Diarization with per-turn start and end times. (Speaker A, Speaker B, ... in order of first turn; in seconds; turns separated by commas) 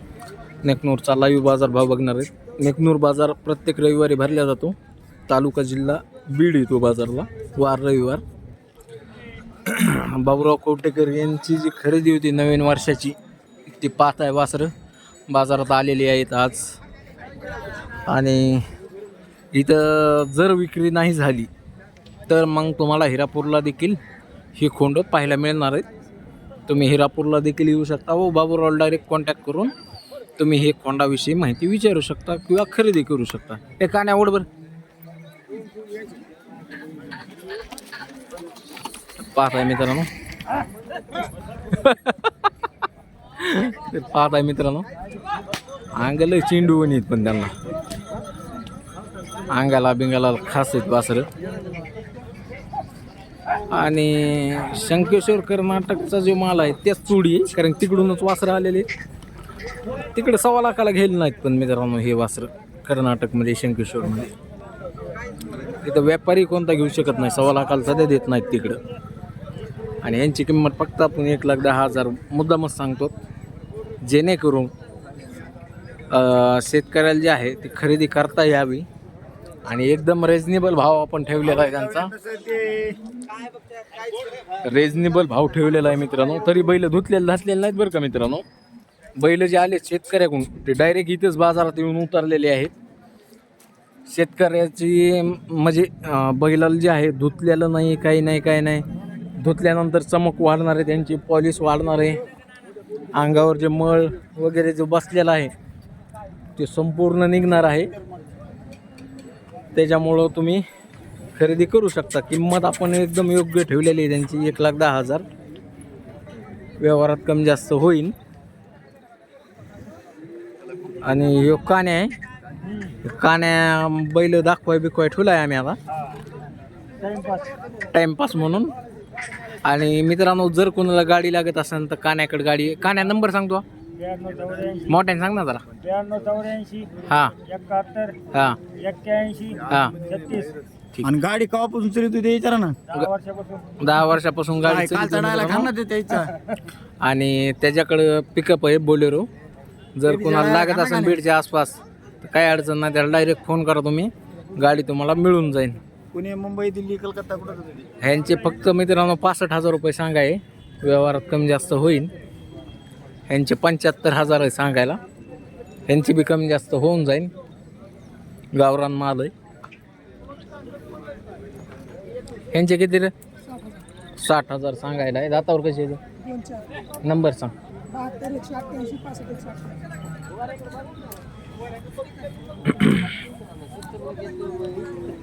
Speaker A: 0.6-4.8, Speaker A: 5.3-8.2, Speaker A: 9.7-13.2, Speaker A: 13.7-14.7, Speaker A: 15.3-16.7, Speaker A: 18.1-18.6, Speaker A: 19.5-21.5, Speaker A: 22.3-24.0, Speaker A: 24.6-25.9, Speaker A: 26.7-29.7, Speaker A: 30.4-34.5, Speaker A: 39.2-40.1, Speaker A: 41.7-42.3, Speaker A: 43.4-44.9, Speaker A: 46.0-47.5, Speaker A: 49.5-51.3, Speaker A: 53.7-58.9, Speaker A: 60.1-64.3, Speaker A: 65.7-68.8, Speaker A: 70.0-73.1, Speaker A: 74.0-74.7, Speaker A: 76.1-78.9, Speaker A: 79.7-82.2, Speaker B: 82.2-83.0, Speaker A: 84.6-88.4, Speaker A: 89.2-92.7, Speaker A: 94.1-98.8, Speaker A: 99.4-102.2, Speaker A: 103.2-105.5, Speaker A: 106.6-107.9, Speaker A: 109.7-110.6, Speaker A: 111.3-115.2, Speaker A: 116.8-118.2, Speaker A: 121.0-122.1, Speaker C: 122.7-123.0, Speaker A: 123.0-125.8, Speaker C: 127.0-127.5, Speaker A: 127.9-128.7, Speaker A: 129.7-133.7, Speaker C: 134.0-134.9, Speaker A: 134.9-135.6, Speaker C: 135.8-138.2, Speaker A: 137.1-137.3, Speaker A: 138.3-138.6, Speaker C: 138.8-140.5, Speaker A: 139.7-140.0, Speaker B: 141.0-142.8, Speaker C: 142.9-143.8, Speaker A: 143.8-145.7, Speaker B: 144.6-146.3, Speaker A: 147.0-149.3, Speaker A: 150.0-155.8, Speaker B: 150.1-151.2, Speaker B: 156.1-157.9, Speaker A: 158.0-162.1, Speaker A: 163.3-165.0, Speaker A: 165.9-167.3, Speaker A: 168.6-169.3, Speaker A: 172.5-173.1, Speaker A: 174.2-176.0, Speaker A: 177.0-177.5, Speaker C: 178.0-179.7, Speaker A: 182.7-183.1